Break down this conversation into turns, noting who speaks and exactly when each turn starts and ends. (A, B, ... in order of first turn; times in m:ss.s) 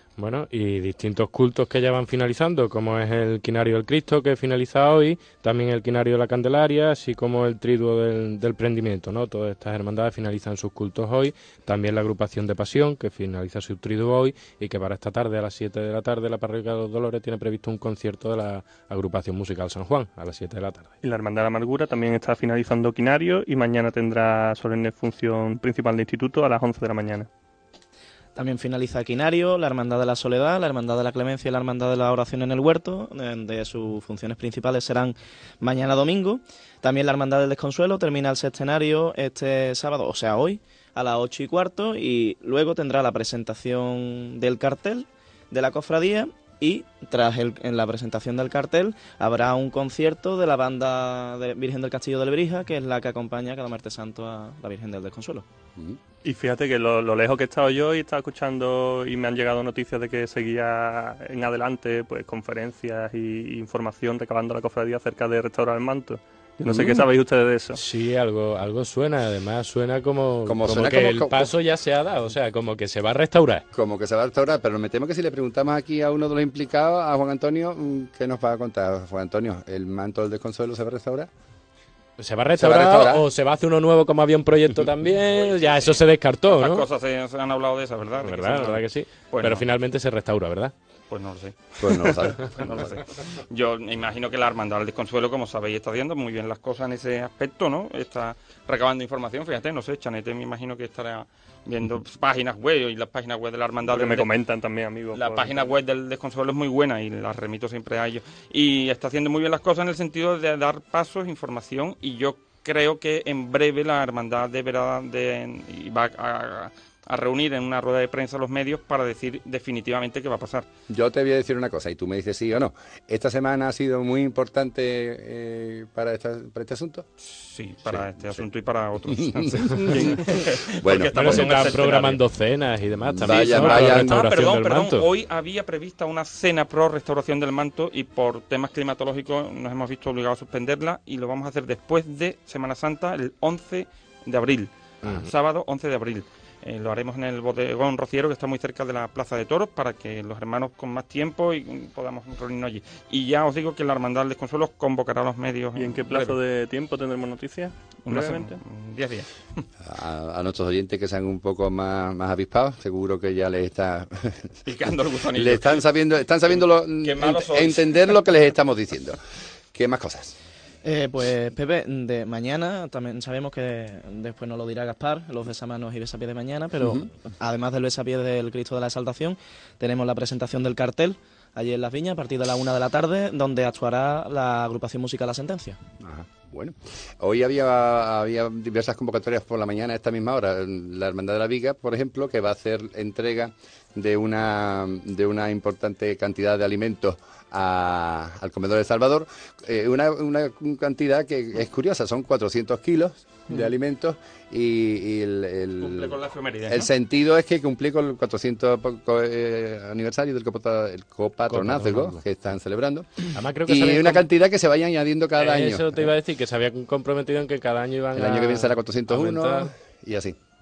0:00.2-0:20.9 A
0:21.0-0:27.3 B
0:28.4-0:55.4 C
0:56.2-1:07.8 B
1:06.7-1:07.0 D
1:07.8-1:13.6 A
1:10.4-1:11.5 D
1:13.7-1:21.3 D
1:22.2-1:26.9 A
1:22.6-1:23.2 D
1:25.3-1:29.6 E
1:28.2-1:30.7 A
1:31.1-1:44.3 E
1:31.8-1:32.8 D
1:43.9-1:45.6 B
1:45.1-2:00.7 E
2:00.9-2:07.1 D
2:07.2-2:12.2 E
2:07.9-2:08.4 D
2:09.1-2:11.8 D
2:11.1-2:15.1 A
2:13.0-2:14.2 D
2:13.2-2:36.3 E
2:35.8-2:38.6 B
2:38.1-2:39.6 E
2:39.8-2:44.6 D
2:44.6-2:45.8 E
2:45.4-2:49.2 D
2:46.5-2:48.2 E
2:49.7-2:50.4 D
2:50.8-3:05.8 C
3:06.0-3:36.1 D
3:25.8-3:26.9 E
3:31.5-3:32.2 A
3:33.4-3:34.2 A
3:35.4-3:39.7 A
3:38.1-3:40.4 D